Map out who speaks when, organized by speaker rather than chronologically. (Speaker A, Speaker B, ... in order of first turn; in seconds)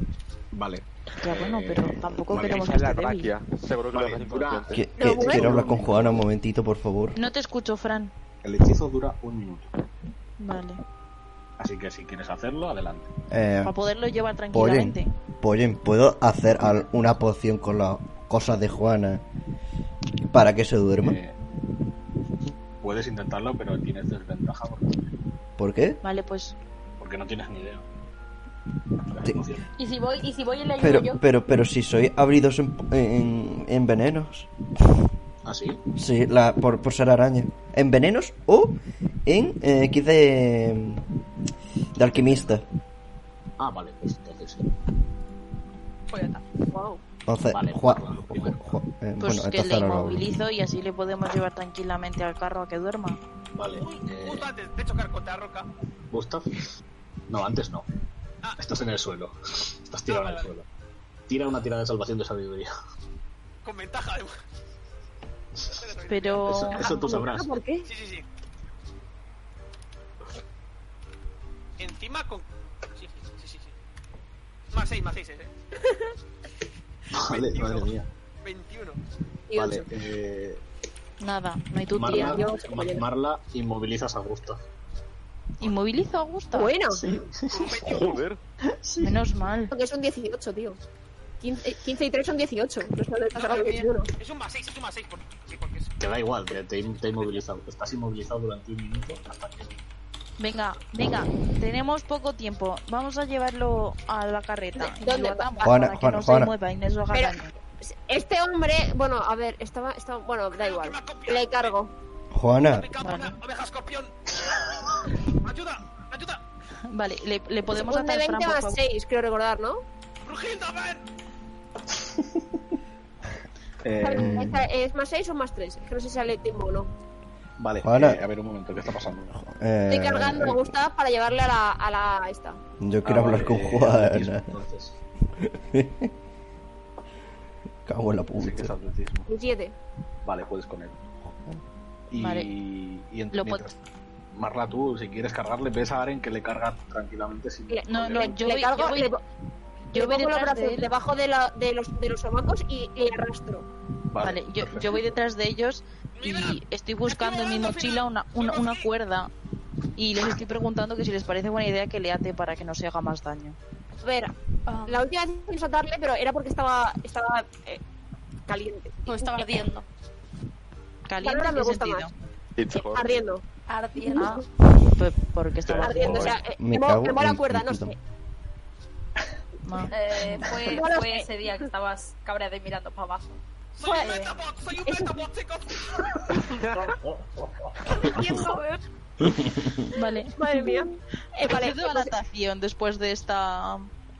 Speaker A: 0.5-2.7, 3.9-6.2, 8.4-9.7, 11.6-13.1, 16.6-17.1, 21.0-21.4, 22.8-25.1, 27.0-27.8, 29.1-29.7, 35.4-35.8, 42.0-42.6, 43.6-44.7, 47.5-48.7, 53.5-54.5, 56.1-56.6, 57.3-57.9, 58.6-60.6, 61.3-62.7, 66.5-67.5, 77.2-78.1, 79.5-80.6, 81.9-84.6, 86.9-87.9, 88.7-89.1, 96.0-99.8, 121.9-122.6, 123.8-124.6, 127.6-129.3, 133.0-135.0, 138.4-139.3, 140.2-141.0, 142.1-143.7, 144.3-148.3, 154.1-155.1, 186.7-188.4
Speaker B: 1.2-3.3, 7.2-8.1, 10.4-10.8, 13.6-15.1, 26.0-26.6, 49.2-53.2, 66.1-66.8, 81.2-82.5, 85.6-86.8, 89.0-89.7, 100.4-107.5, 113.0-113.4, 116.9-118.8, 142.1-142.5, 143.3-143.7, 147.8-149.1, 149.9-150.9, 154.2-159.3, 159.9-163.6, 171.1-172.1, 174.2-176.3, 179.6-179.9, 183.9-184.3, 189.9-190.8, 191.4-193.9
Speaker C: 2.3-4.8, 87.8-88.4, 172.6-173.3, 175.7-176.3
Speaker D: 4.7-7.2, 13.3-13.7, 14.5-19.2, 20.3-21.2, 25.6-26.0, 30.8-34.5, 36.0-41.0, 41.9-42.6, 47.3-50.3, 105.6-106.5, 112.3-112.9, 124.2-124.5, 127.8-128.2, 129.3-130.6, 132.8-134.6, 135.4-136.1, 137.8-138.7, 176.2-177.9
Speaker E: 5.0-5.6, 46.7-47.0, 66.8-67.9, 75.8-76.1, 79.5-79.9, 82.0-83.0, 86.5-87.0, 89.7-90.8, 91.4-94.1, 104.8-105.9, 107.1-111.9, 117.7-119.8, 124.0-126.9, 129.9-132.6, 139.3-139.8, 147.7-149.2, 149.9-153.7, 164.0-164.3, 164.9-167.8, 168.5-169.6, 171.2-172.1, 172.7-173.4, 175.8-178.0, 180.5-181.6, 184.8-185.2, 188.0-188.6, 190.3-192.1
Speaker F: 29.8-31.2, 46.1-46.5, 93.5-93.8, 164.7-165.1, 169.1-169.9, 173.7-174.4, 179.9-184.3, 188.0-188.8
Speaker G: 53.8-55.7, 60.1-60.5, 63.6-64.3, 65.8-66.5, 67.8-68.3, 71.8-73.7, 74.7-75.5, 77.2-77.9, 78.4-79.0, 87.5-88.2, 93.4-95.9, 110.5-111.8, 112.6-114.1, 115.4-116.4, 120.2-121.0, 156.2-158.9, 183.7-186.2